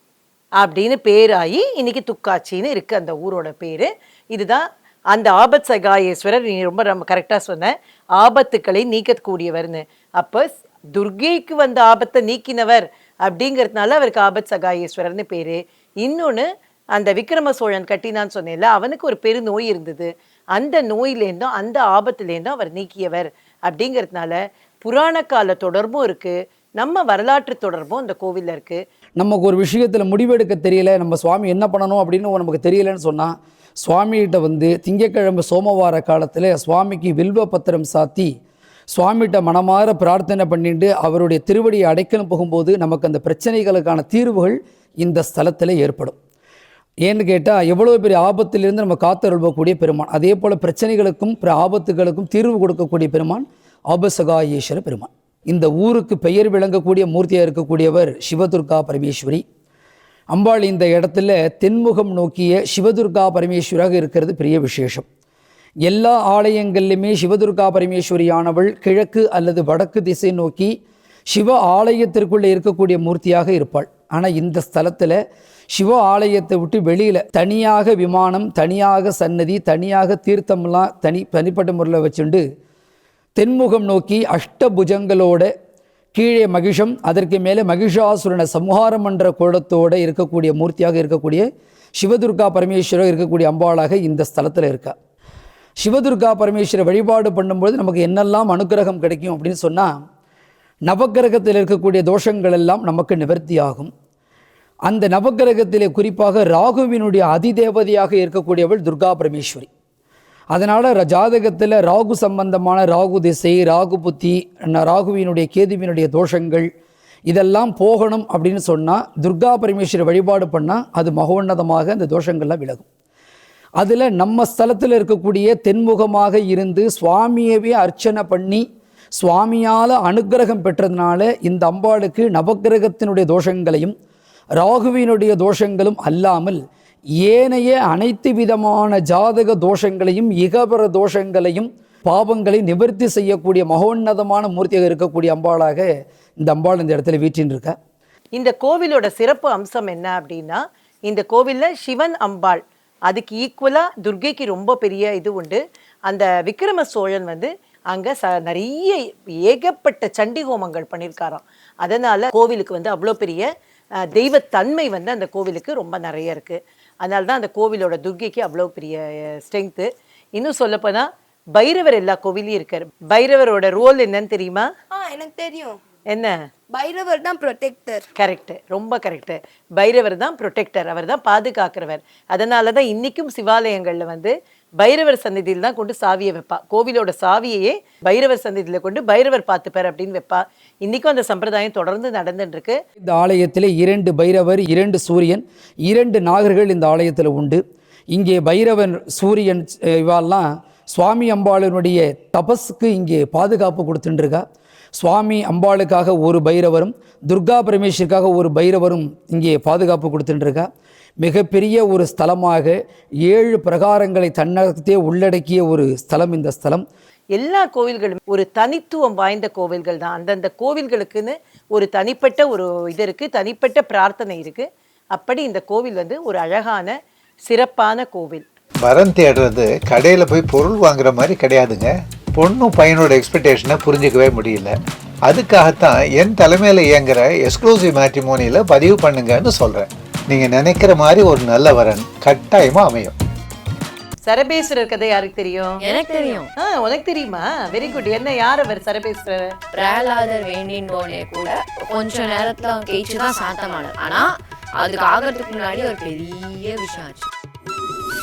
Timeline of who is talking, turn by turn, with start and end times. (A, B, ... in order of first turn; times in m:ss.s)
0:00.6-0:28.8 A
0:29.2-0:38.3 B
0:38.9-0:46.2 B
0:47.0-0:59.4 B
1:00.3-1:05.0 B
1:05.8-1:10.7 B
1:11.3-1:15.2 B
1:15.7-1:22.4 B
1:23.4-1:25.5 B
1:26.1-1:34.9 B
1:35.8-1:39.9 B
1:40.9-1:43.9 B
1:44.8-1:49.7 B
1:50.5-1:56.7 B
1:57.3-2:02.9 B
2:03.8-2:08.6 B
2:09.2-2:13.9 B
2:14.6-2:16.6 B
2:17.2-2:25.9 B
2:26.4-2:27.7 B
2:28.3-2:43.5 A
2:44.1-2:54.7 A
2:54.9-2:55.8 C
2:56.1-2:56.4 A
2:56.7-2:58.0 C
2:58.2-3:12.8 A
3:13.0-3:17.6 B
3:18.1-3:24.4 B
3:25.0-3:30.7 B
3:31.2-3:36.8 B
3:37.3-3:48.4 A
3:48.8-3:54.7 D
3:55.3-4:03.1 D
4:04.2-4:05.8 A
4:05.8-4:06.5 E
4:06.6-4:09.6 A
4:09.7-4:14.3 E
4:14.8-4:17.2 E